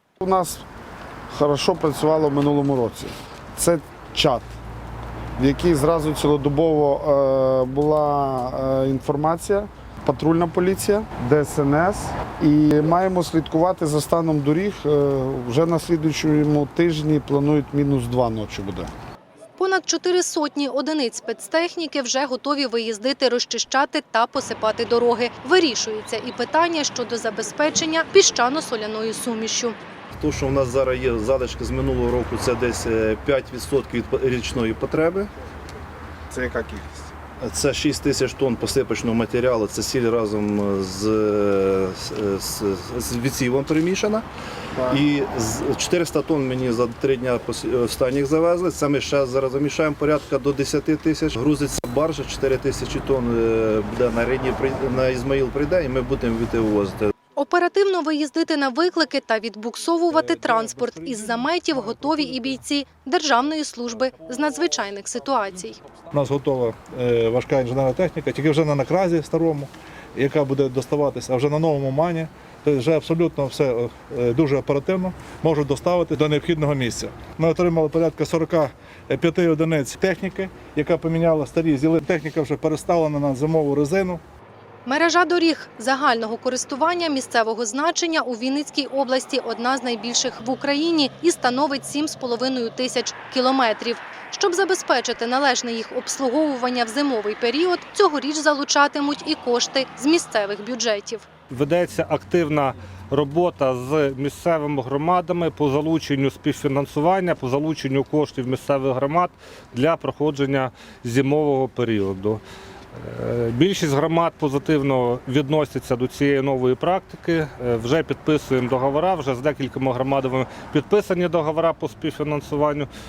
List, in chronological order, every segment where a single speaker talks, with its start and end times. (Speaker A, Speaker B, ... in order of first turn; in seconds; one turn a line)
Speaker A: 0.2-0.6
Speaker A: 1.3-4.5
Speaker A: 5.4-18.9
Speaker B: 19.6-29.8
Speaker C: 30.2-35.3
Speaker A: 36.3-37.1
Speaker C: 37.4-44.3
Speaker A: 44.8-45.0
Speaker C: 44.9-57.1
Speaker B: 57.4-65.8
Speaker D: 60.1-62.6
Speaker D: 66.1-84.2
Speaker B: 84.9-101.3
Speaker E: 101.5-112.4
Speaker E: 113.0-122.9